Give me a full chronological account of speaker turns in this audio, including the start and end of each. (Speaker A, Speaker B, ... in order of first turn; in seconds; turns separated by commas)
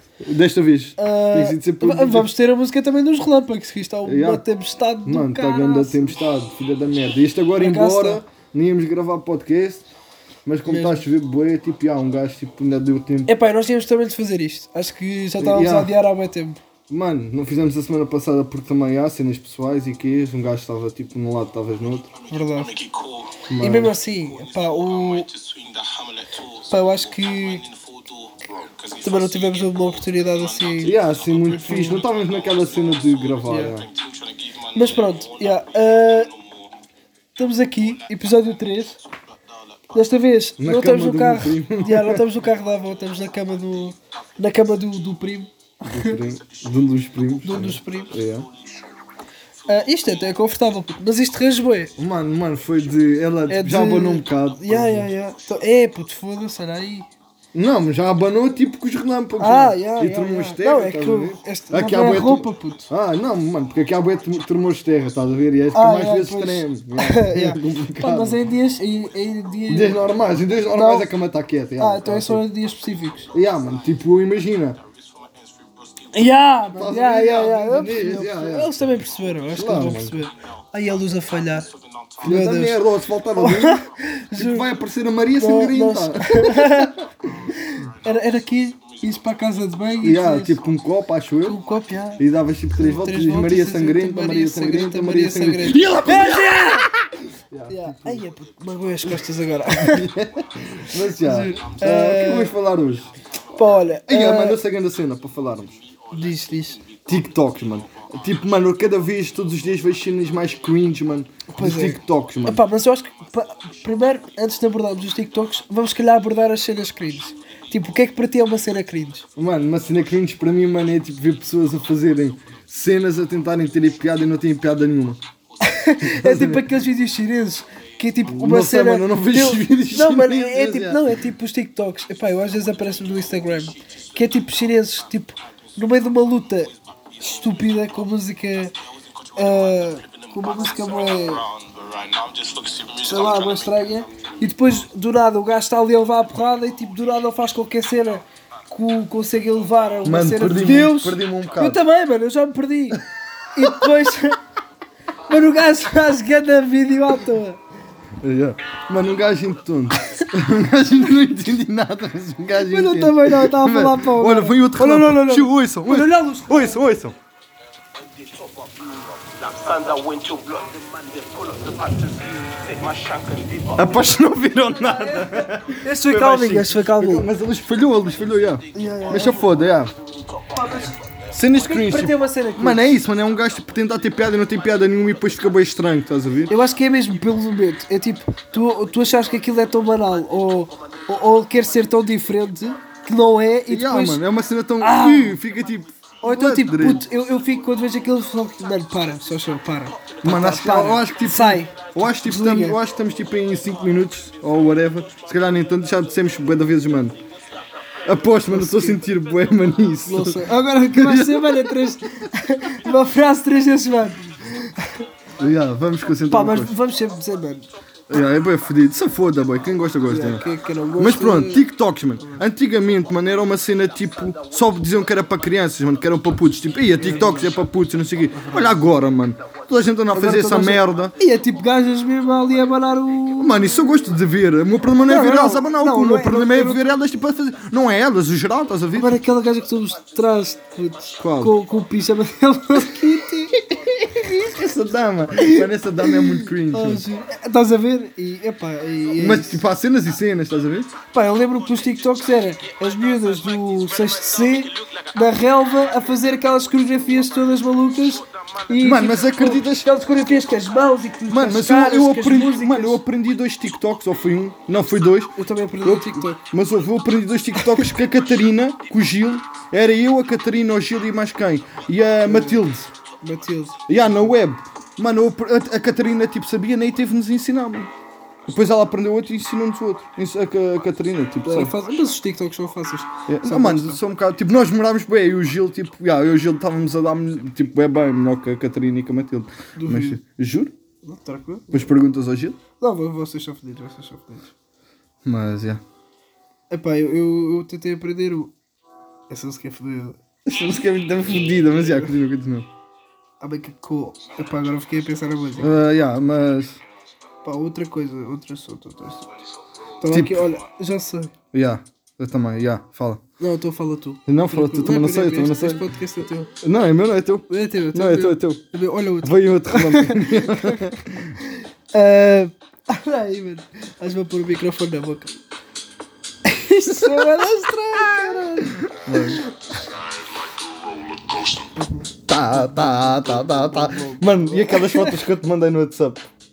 Speaker A: 0.2-2.3, Speaker B: 1.0-6.2, Speaker A: 4.0-4.4, Speaker A: 5.0-9.8, Speaker B: 7.6-8.2, Speaker A: 10.4-13.3, Speaker B: 10.7-11.0, Speaker B: 13.2-16.6, Speaker A: 15.4-15.9, Speaker A: 16.9-22.1, Speaker B: 22.3-22.9, Speaker A: 23.5-23.9, Speaker B: 23.6-25.3, Speaker C: 25.5-26.3, Speaker B: 26.6-27.7, Speaker B: 29.0-32.0, Speaker A: 30.8-33.9, Speaker B: 33.5-33.8, Speaker B: 34.7-36.3, Speaker B: 37.4-39.0, Speaker B: 39.9-46.1, Speaker A: 40.6-42.2, Speaker A: 45.8-48.5, Speaker B: 47.4-48.1, Speaker B: 49.7-51.9, Speaker A: 52.0-55.1, Speaker B: 53.5-57.1, Speaker A: 57.5-68.4, Speaker B: 59.4-62.9, Speaker B: 65.7-70.0, Speaker A: 69.7-72.4, Speaker B: 70.7-71.1, Speaker B: 71.8-73.3, Speaker A: 73.3-74.8, Speaker B: 76.1-81.7, Speaker A: 76.7-78.7, Speaker A: 79.5-80.2, Speaker B: 82.2-82.8, Speaker A: 82.2-83.8, Speaker B: 83.3-84.7, Speaker A: 84.3-87.3, Speaker B: 85.4-86.9, Speaker B: 87.5-90.6, Speaker A: 90.0-91.6, Speaker B: 91.5-92.2, Speaker A: 92.2-96.5, Speaker B: 92.8-97.0, Speaker A: 97.5-98.2, Speaker B: 97.7-100.1, Speaker A: 99.8-103.1, Speaker B: 101.0-102.5, Speaker B: 103.5-104.6, Speaker A: 104.1-105.8, Speaker B: 106.1-106.8, Speaker A: 107.0-112.6, Speaker B: 111.5-119.3, Speaker A: 119.3-125.2, Speaker B: 125.6-138.7, Speaker A: 126.0-126.7, Speaker A: 128.3-131.1, Speaker B: 139.3-141.5, Speaker C: 141.9-142.9, Speaker B: 142.9-153.0, Speaker A: 150.0-151.8, Speaker B: 153.5-154.4, Speaker B: 155.3-157.6, Speaker A: 158.2-167.2, Speaker B: 162.6-166.8, Speaker C: 169.4-173.7, Speaker A: 173.7-179.9, Speaker B: 175.8-177.3, Speaker B: 178.7-179.4, Speaker B: 180.4-181.0, Speaker A: 181.3-186.5, Speaker B: 181.6-182.8, Speaker B: 186.5-194.2, Speaker A: 193.7-197.1, Speaker B: 194.8-195.4, Speaker B: 196.2-202.8, Speaker A: 200.2-207.2, Speaker A: 208.1-211.8, Speaker B: 208.5-209.0, Speaker B: 210.1-215.0, Speaker A: 215.4-216.8, Speaker B: 216.3-217.7, Speaker A: 218.1-220.4, Speaker B: 220.1-221.7, Speaker A: 221.0-231.1, Speaker B: 227.0-227.5, Speaker B: 228.3-228.8, Speaker B: 230.1-233.7, Speaker A: 233.4-239.1, Speaker B: 234.9-236.8, Speaker B: 238.9-244.3, Speaker A: 241.2-241.5, Speaker A: 244.1-247.0, Speaker B: 245.4-249.6, Speaker A: 249.2-250.9, Speaker B: 251.1-263.0, Speaker A: 258.8-259.9, Speaker A: 261.3-272.9, Speaker B: 265.4-266.4, Speaker B: 272.3-272.6, Speaker B: 273.2-274.2, Speaker A: 273.9-277.9, Speaker A: 278.4-281.7, Speaker B: 281.4-284.0, Speaker A: 283.3-290.7, Speaker B: 289.8-290.2, Speaker B: 291.0-291.9, Speaker A: 291.7-292.6, Speaker B: 292.8-294.5, Speaker A: 295.2-295.8, Speaker B: 296.7-298.5, Speaker B: 299.3-300.2, Speaker A: 300.4-302.7, Speaker B: 301.8-302.1, Speaker B: 303.4-305.8, Speaker A: 305.6-306.8, Speaker B: 307.4-309.3, Speaker B: 310.0-311.3, Speaker A: 310.1-310.4, Speaker A: 311.5-313.2, Speaker B: 313.4-316.5, Speaker A: 314.3-315.8, Speaker A: 316.6-318.6, Speaker B: 317.5-325.3, Speaker A: 319.2-321.4, Speaker B: 326.4-329.6, Speaker A: 326.9-327.2, Speaker A: 328.2-329.4, Speaker B: 331.7-335.1, Speaker A: 332.3-336.3